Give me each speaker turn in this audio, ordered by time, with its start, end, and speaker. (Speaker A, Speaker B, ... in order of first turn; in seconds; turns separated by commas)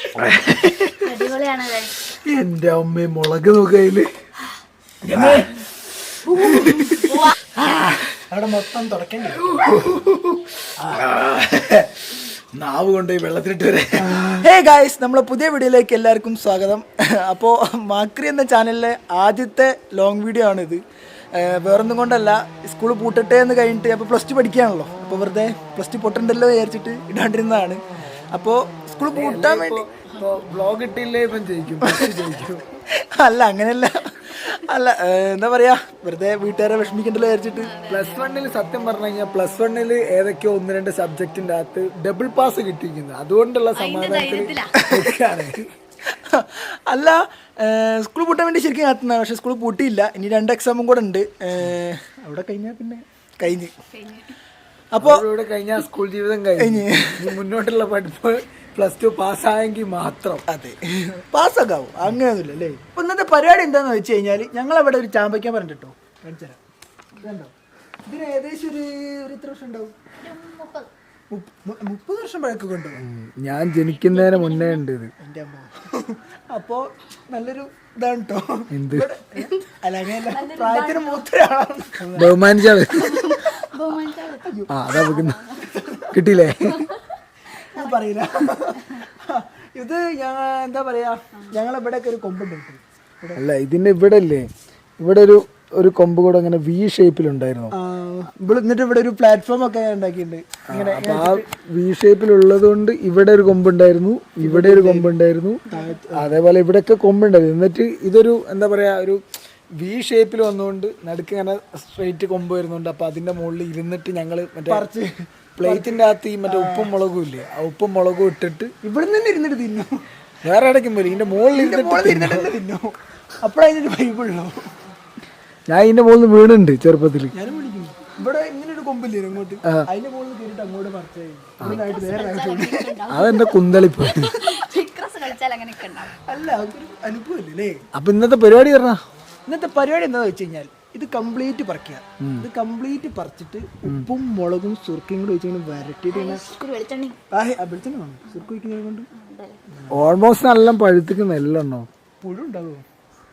Speaker A: 0.2-1.1, Speaker B: 1.0-1.9, Speaker A: 2.2-4.1, Speaker C: 5.0-5.5, Speaker A: 5.1-5.5, Speaker C: 6.3-7.0, Speaker A: 6.3-8.0, Speaker B: 6.9-7.3, Speaker C: 8.2-9.6, Speaker A: 9.5-11.9, Speaker A: 12.5-14.4, Speaker C: 14.0-20.8, Speaker C: 21.3-29.8, Speaker A: 29.1-32.6, Speaker C: 31.8-32.5, Speaker C: 33.0-37.7, Speaker B: 37.6-38.1, Speaker A: 37.9-45.7, Speaker B: 43.7-45.0, Speaker C: 46.1-53.7, Speaker B: 53.9-54.3, Speaker C: 54.9-55.2, Speaker A: 55.0-60.4, Speaker C: 56.6-57.4, Speaker C: 60.5-66.6, Speaker C: 67.2-67.5, Speaker C: 68.0-69.9, Speaker B: 70.2-70.9, Speaker C: 71.3-73.0, Speaker A: 73.0-75.1, Speaker B: 73.8-74.8, Speaker C: 75.2-82.3, Speaker A: 78.7-79.1, Speaker B: 79.3-79.6, Speaker B: 80.2-81.2, Speaker A: 82.1-83.4, Speaker B: 82.8-85.7, Speaker C: 84.5-84.7, Speaker A: 84.7-85.4, Speaker C: 85.6-86.2, Speaker A: 86.1-86.9, Speaker B: 86.7-87.0, Speaker C: 87.7-93.4, Speaker B: 87.7-88.0, Speaker A: 93.3-94.5, Speaker A: 95.0-97.7, Speaker C: 97.7-101.5, Speaker A: 100.7-105.6, Speaker C: 104.4-105.1, Speaker C: 105.7-106.4, Speaker A: 106.1-109.2, Speaker A: 109.8-114.8, Speaker C: 114.7-116.9, Speaker A: 115.5-118.7, Speaker C: 118.8-120.0, Speaker A: 120.4-122.5, Speaker C: 121.5-124.7, Speaker A: 125.7-127.3, Speaker C: 127.3-132.9, Speaker B: 131.6-136.1, Speaker A: 133.1-134.3, Speaker C: 136.2-137.8, Speaker A: 137.9-139.0, Speaker C: 139.4-146.4, Speaker A: 142.2-142.5, Speaker B: 146.1-147.2, Speaker C: 147.3-149.1, Speaker B: 149.1-149.6, Speaker A: 149.9-151.9, Speaker C: 152.2-152.8